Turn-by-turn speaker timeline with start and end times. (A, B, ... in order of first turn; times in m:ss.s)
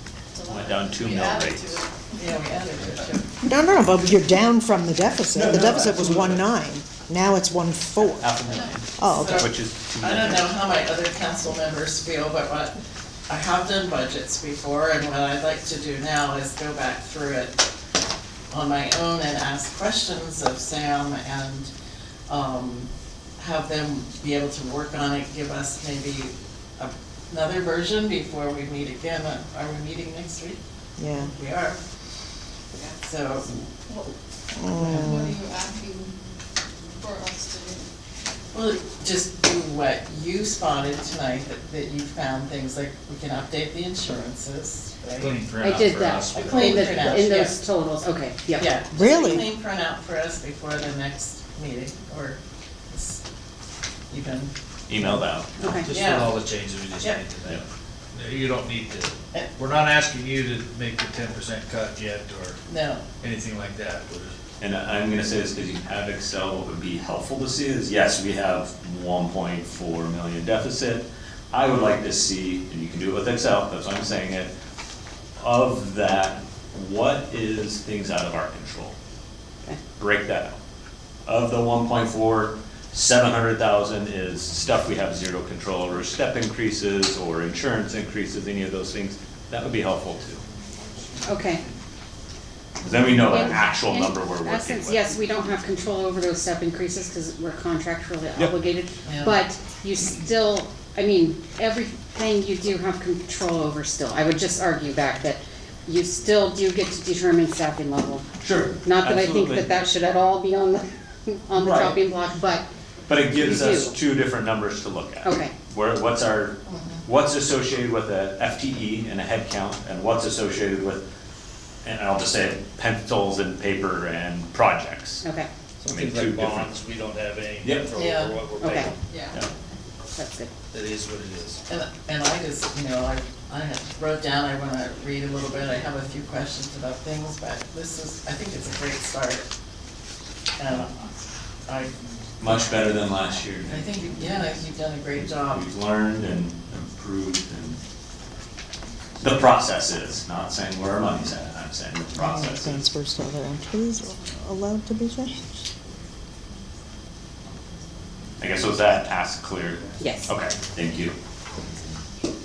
0:00.3-0:02.3 A
0:00.4-0:01.8 B
0:02.1-0:03.3 C
0:03.4-0:08.3 D
0:05.3-0:06.5 B
0:08.0-0:10.5 B
0:09.0-0:09.5 D
0:09.0-0:12.8 C
0:13.3-0:17.6 C
0:18.5-0:21.7 C
0:22.3-0:30.6 C
0:31.0-0:31.3 D
0:31.2-0:31.8 C
0:33.0-0:33.6 C
0:34.5-0:35.4 D
0:34.8-0:35.2 C
0:34.9-0:36.2 A
0:37.0-0:37.9 A
0:38.5-0:45.4 C
0:45.2-0:47.3 E
0:45.6-0:48.7 F
0:46.3-0:47.6 C
0:48.6-0:52.4 C
0:48.9-0:49.4 D
0:52.9-0:53.2 C
0:54.1-0:54.5 C
0:54.9-0:55.6 B
0:55.6-0:55.9 F
0:55.6-1:02.6 E
0:55.8-0:56.4 C
1:02.6-1:03.0 C
1:03.2-1:04.4 E
1:04.6-1:14.5 B
1:15.4-1:19.0 B
1:20.0-1:20.6 B
1:21.2-1:30.4 B
1:31.2-1:31.6 F
1:32.8-1:35.2 B
1:33.2-1:48.3 F
1:39.0-1:39.4 C
1:48.4-1:49.7 B
1:48.8-1:52.7 F
1:51.5-1:52.0 B
1:53.1-2:01.0 B
1:53.4-1:54.0 F
1:55.2-1:55.5 F
2:01.8-2:05.2 B
2:05.2-2:05.5 F
2:05.8-2:09.2 E
2:05.8-2:06.7 B
2:07.6-2:08.0 B
2:08.0-2:08.4 C
2:08.6-2:08.9 F
2:10.1-2:10.5 F
2:10.7-2:11.6 E
2:11.7-2:19.4 C
2:20.6-2:20.9 C
2:21.6-2:21.9 C
2:22.4-2:23.9 B
2:23.7-2:25.6 C
2:25.4-2:27.8 B
2:29.2-2:32.8 B
2:32.2-2:35.6 D
2:38.4-2:41.2 B
2:40.0-2:40.3 F